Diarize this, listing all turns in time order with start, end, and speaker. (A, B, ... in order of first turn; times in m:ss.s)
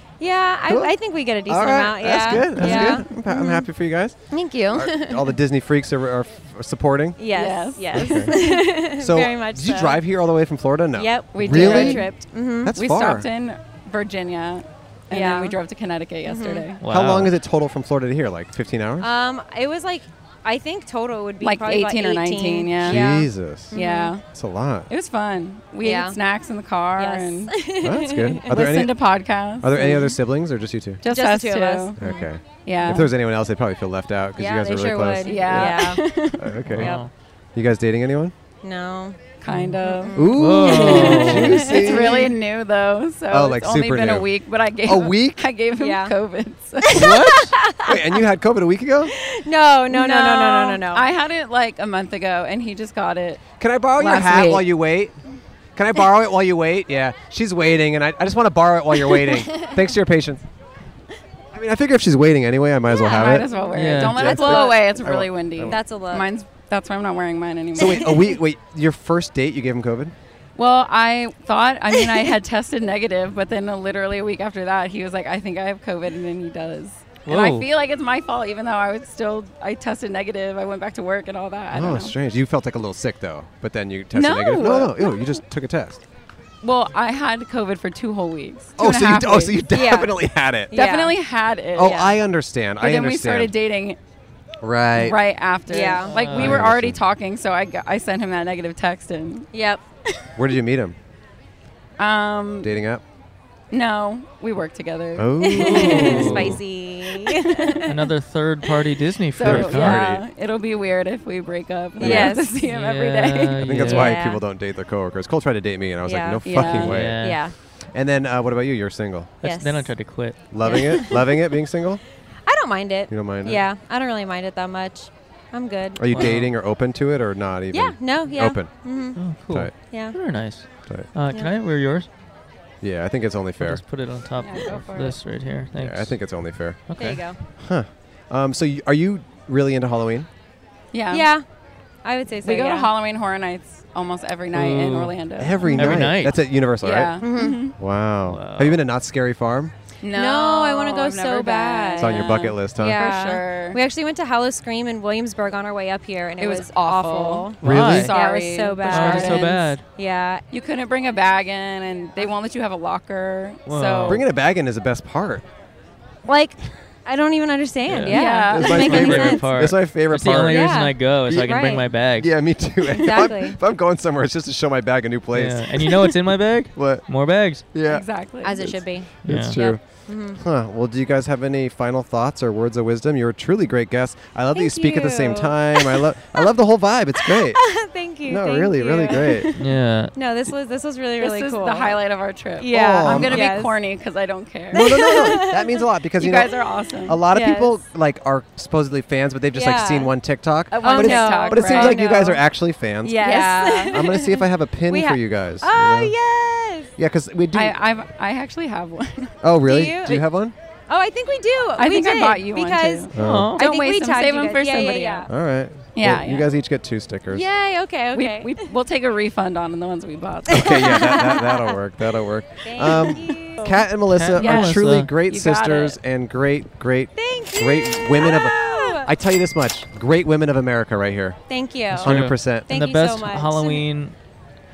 0:00.2-0:03.6 A
0:00.7-0:07.2 B
0:02.6-0:03.0 C
0:04.3-0:05.4 A
0:07.2-0:10.0 A
0:07.3-0:08.5 C
0:07.9-0:08.3 B
0:09.0-0:13.3 B
0:11.0-0:12.7 A
0:11.3-0:12.2 C
0:12.7-0:16.8 C
0:15.1-0:15.6 A
0:16.2-0:16.6 A
0:16.8-0:17.3 D
0:16.8-0:19.1 B
0:19.0-0:24.1 A
0:21.4-0:23.0 C
0:22.8-0:23.8 B
0:23.7-0:24.2 C
0:24.3-0:24.9 B
0:24.9-0:27.5 C
0:25.8-0:26.2 A
0:27.0-0:28.7 A
0:27.8-0:28.9 B
0:28.5-0:30.1 C
0:29.6-0:31.0 B
0:31.0-0:32.0 C
0:31.0-0:32.3 A
0:32.0-0:35.8 B
0:32.6-0:33.1 C
0:34.4-0:37.0 A
0:35.2-0:36.5 C
0:36.4-0:36.9 B
0:36.7-0:37.1 D
0:37.5-0:38.3 B
0:38.6-0:39.2 A
0:39.4-0:47.0 C
0:39.5-0:39.8 D
0:39.8-0:41.9 A
0:40.1-0:42.3 B
0:40.4-0:41.7 D
0:43.3-0:44.3 B
0:44.8-0:45.4 B
0:45.8-0:46.1 A
0:46.8-0:48.0 A
0:46.9-0:47.5 D
0:47.8-0:49.1 B
0:49.1-0:51.1 A
0:49.9-0:53.4 C
0:53.6-0:55.2 B
0:54.0-0:54.7 C
0:55.8-1:00.4 B
1:01.5-1:03.5 B
1:02.9-1:04.9 A
1:03.0-1:08.3 C
1:03.7-1:04.3 D
1:04.2-1:05.8 B
1:05.6-1:06.3 A
1:07.8-1:10.1 B
1:10.6-1:22.1 C
1:17.2-1:17.7 D
1:21.7-1:26.0 B
1:24.1-1:25.2 C
1:26.6-1:29.6 C
1:28.8-1:30.7 B
1:29.7-1:30.1 A
1:30.7-1:31.1 A
1:30.7-1:32.1 C
1:31.8-1:33.5 B
1:32.8-1:34.0 C
1:34.6-1:35.2 B
1:34.9-1:39.5 C
1:35.7-1:36.2 A
1:36.1-1:36.6 D
1:36.4-1:37.0 B
1:39.5-1:39.8 A
1:40.4-1:41.0 B
1:42.0-1:42.7 C
1:42.6-1:43.0 B
1:43.7-1:46.2 C
1:45.2-1:46.6 B
1:45.4-1:47.9 A
1:45.6-1:46.6 D
1:47.1-1:47.9 C
1:47.9-1:50.0 D
1:49.3-1:53.6 C
1:49.4-1:50.2 B
1:52.0-1:52.5 A
1:52.0-1:52.3 B
1:52.6-1:54.2 D
1:53.6-1:57.2 B
1:53.8-1:54.4 A
1:56.0-1:57.5 A
1:56.4-1:57.0 C
1:56.8-1:57.4 D
1:57.9-1:59.3 B
1:59.4-2:00.1 A
1:59.4-2:00.4 D
2:00.5-2:02.0 B
2:00.6-2:01.2 A
2:02.4-2:06.3 A
2:03.1-2:03.6 B
2:06.0-2:08.7 B
2:06.1-2:06.5 D
2:07.7-2:09.3 A
2:09.2-2:12.1 D
2:09.8-2:10.2 A
2:12.8-2:13.8 B
2:13.6-2:16.2 D
2:14.4-2:15.2 C
2:15.8-2:16.8 B
2:16.9-2:17.2 D
2:17.0-2:17.4 A
2:17.6-2:20.3 B
2:20.9-2:21.3 C
2:21.1-2:21.4 A
2:22.0-2:22.9 A
2:22.4-2:25.8 C
2:24.5-2:25.1 D
2:25.4-2:27.2 B
2:25.8-2:26.4 D
2:26.8-2:27.8 C
2:27.2-2:27.7 A
2:27.8-2:29.7 B
2:28.2-2:28.8 D
2:30.0-2:33.8 C
2:30.1-2:40.4 A
2:32.0-2:33.0 B
2:36.4-2:39.8 C
2:37.6-2:38.1 B
2:37.6-2:38.1 D
2:38.9-2:39.8 D
2:40.5-2:44.2 C
2:43.7-2:44.2 D
2:44.1-2:45.4 B
2:46.2-2:49.5 A
2:47.9-2:52.3 D
2:48.1-2:49.2 C
2:48.5-2:51.6 B
2:50.5-2:51.9 A
2:52.2-2:55.8 B
2:52.8-2:53.6 A
2:55.3-2:57.6 D
2:56.7-2:57.0 B
2:57.7-2:58.0 B
2:57.9-2:58.8 C
2:58.4-3:00.4 A
2:59.2-2:59.6 D
2:59.2-2:59.8 B
3:00.4-3:07.6 B
3:04.5-3:06.5 A
3:07.2-3:09.5 A
3:08.2-3:09.5 B
3:09.1-3:09.6 C
3:09.6-3:10.1 D
3:10.1-3:12.0 A
3:11.2-3:15.5 C
3:12.6-3:13.8 A
3:12.7-3:13.5 B
3:14.7-3:15.8 A
3:14.7-3:16.5 B
3:16.2-3:17.2 C
3:17.1-3:23.2 B
3:17.3-3:17.8 A
3:19.5-3:20.1 A
3:20.7-3:22.0 C
3:20.8-3:22.4 A
3:23.0-3:26.9 A
3:23.2-3:24.0 C
3:23.9-3:26.1 B
3:27.0-3:27.8 B
3:27.5-3:29.4 C
3:29.4-3:30.5 B
3:29.6-3:30.3 A
3:30.9-3:35.3 A
3:31.8-3:35.3 C
3:33.1-3:33.6 B
3:33.2-3:33.6 D
3:35.3-3:37.4 B
3:35.9-3:36.5 C
3:37.3-3:38.7 A
3:38.1-3:41.1 C
3:40.5-3:51.4 B
3:40.5-3:41.7 A
3:42.6-3:43.8 A
3:42.8-3:43.4 C
3:44.1-3:45.1 D
3:44.4-3:46.0 C
3:47.2-3:49.1 A
3:51.5-3:53.8 A
3:51.9-3:52.7 B
3:51.9-3:54.1 D